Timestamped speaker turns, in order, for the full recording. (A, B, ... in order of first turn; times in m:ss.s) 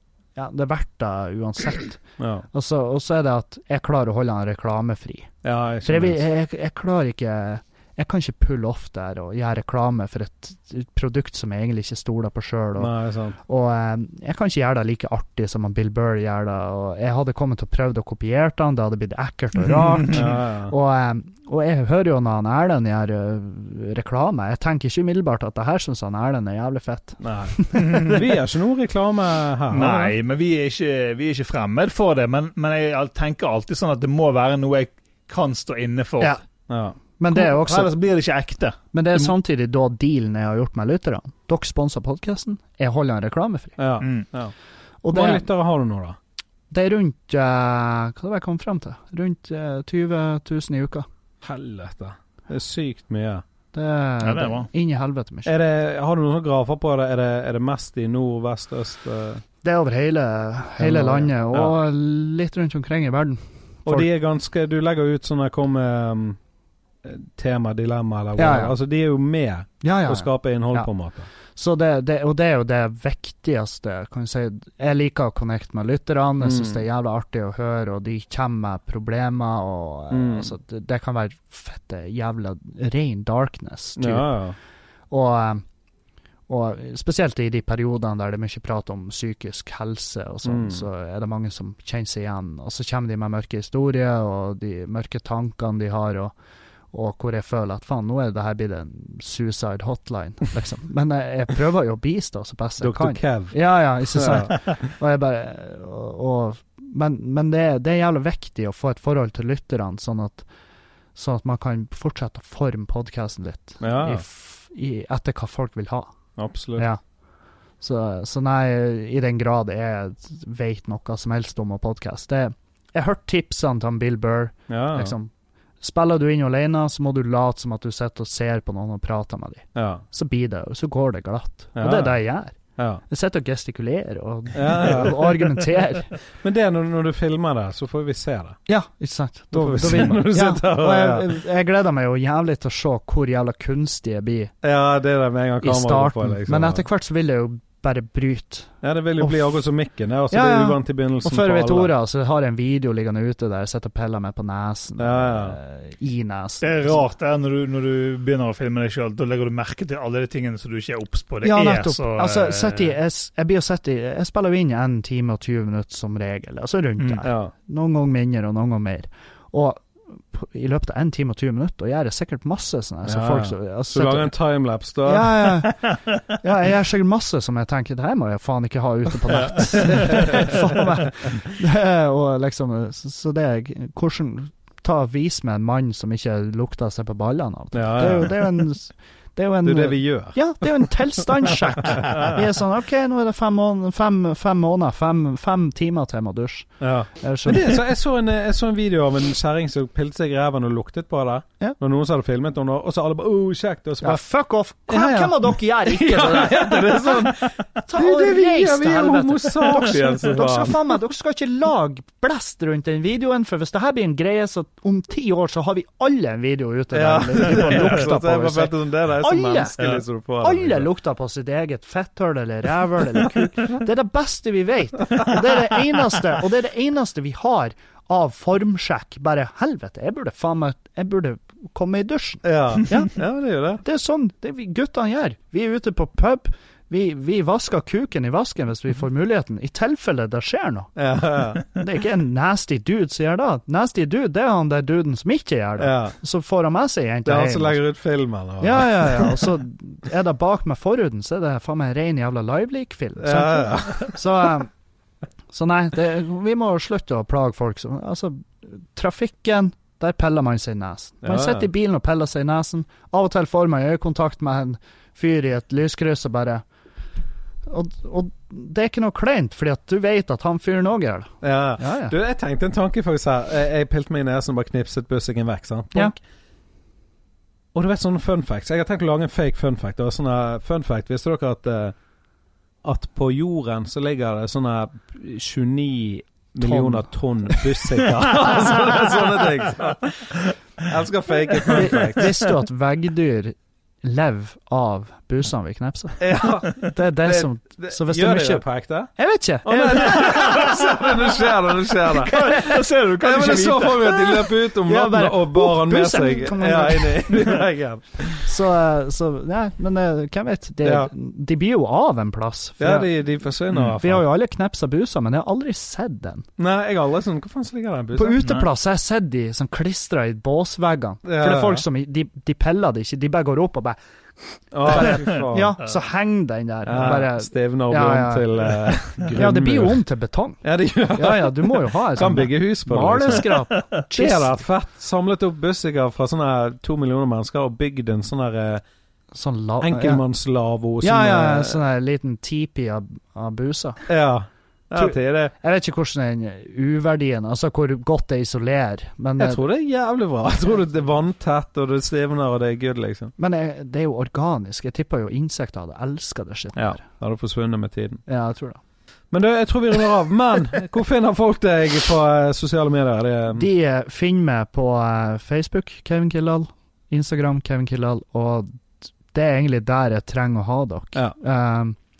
0:00.3-0:28.2 A
0:02.2-0:02.5 B
0:05.4-0:06.2 B
0:12.8-0:13.4 B
0:19.6-0:20.1 C
0:20.1-0:20.7 B
0:27.2-0:30.2 B
0:27.8-0:28.1 C
0:29.7-0:36.4 C
0:36.7-0:37.0 B
0:37.1-0:37.9 A
0:37.3-0:39.3 C
0:38.9-0:43.8 A
0:43.8-0:44.6 B
0:44.0-0:44.3 C
0:45.0-0:45.5 A
0:45.1-0:46.2 B
0:46.7-0:51.0 A
0:51.4-0:53.4 B
0:53.7-0:55.5 A
0:54.2-0:54.7 C
0:55.4-0:59.4 B
0:59.6-1:04.1 A
1:00.8-1:01.8 B
1:03.8-1:06.4 B
1:07.0-1:11.3 B
1:08.4-1:08.7 A
1:09.8-1:10.9 A
1:11.5-1:24.3 A
1:16.4-1:16.8 B
1:20.1-1:20.5 B
1:24.0-1:24.6 B
1:25.1-1:25.6 A
1:26.5-1:36.3 A
1:30.4-1:30.8 B
1:36.9-1:50.5 A
1:42.8-1:43.6 B
1:44.1-1:44.8 B
1:51.1-1:56.1 A
1:53.8-1:54.2 B
1:56.4-1:56.8 B
1:57.8-2:12.6 A
2:04.7-2:05.1 B
2:09.7-2:10.0 B
2:11.8-2:12.2 B
2:12.8-2:13.0 B
2:13.1-2:16.1 A
2:14.5-2:18.6 B
2:18.7-2:24.5 A
2:19.5-2:21.3 B
2:24.6-2:26.8 B
2:25.6-2:29.6 A
2:28.8-2:31.9 B
2:30.3-2:37.0 A
2:35.0-2:35.6 B
2:36.6-2:43.0 C
2:41.4-2:54.3 A
2:47.0-2:47.2 C
2:47.2-2:47.5 B
2:53.0-2:55.6 B
2:55.0-3:17.8 A
3:00.0-3:00.6 B
3:07.7-3:08.7 B
3:09.6-3:12.4 B
3:16.8-3:24.2 B
3:24.0-3:53.2 A
3:24.9-3:30.8 B
3:36.9-3:40.9 B
3:45.1-3:45.4 B
3:52.4-3:53.8 B
3:53.8-4:00.9 A
4:01.0-4:01.6 B
4:01.7-4:07.8 A
4:05.8-4:06.2 B
4:07.2-4:09.5 B
4:08.6-4:14.7 A
4:13.2-4:14.2 B
4:15.5-4:26.6 A
4:21.2-4:21.7 B
4:27.6-4:32.1 A
4:31.4-4:36.2 B
4:37.7-4:42.0 B
4:42.8-4:52.4 B
4:46.6-4:47.8 A
4:51.8-5:01.1 A
4:56.2-4:59.1 B
4:59.6-5:08.6 B
5:02.2-5:04.4 C
5:02.3-5:02.7 A
5:04.8-5:07.6 A
5:08.4-5:13.1 A
5:10.8-5:11.1 B
5:12.8-5:14.2 B
5:14.0-5:16.4 A
5:16.6-5:18.4 B
5:18.1-5:24.0 A
5:21.2-5:21.8 B
5:24.5-5:28.6 A
5:24.7-5:25.8 B
5:26.8-5:30.0 B
5:29.3-5:30.6 A
5:30.6-5:38.8 B
5:31.1-5:34.5 A
5:39.3-5:40.2 A
5:39.8-5:41.8 B
5:41.0-5:44.0 A
5:44.0-5:45.5 B
5:44.9-5:49.6 A
5:49.4-5:53.3 B
5:53.4-5:57.0 A
5:56.7-5:58.2 B
5:58.3-5:58.8 A
5:59.3-6:03.7 B
6:03.5-6:12.0 A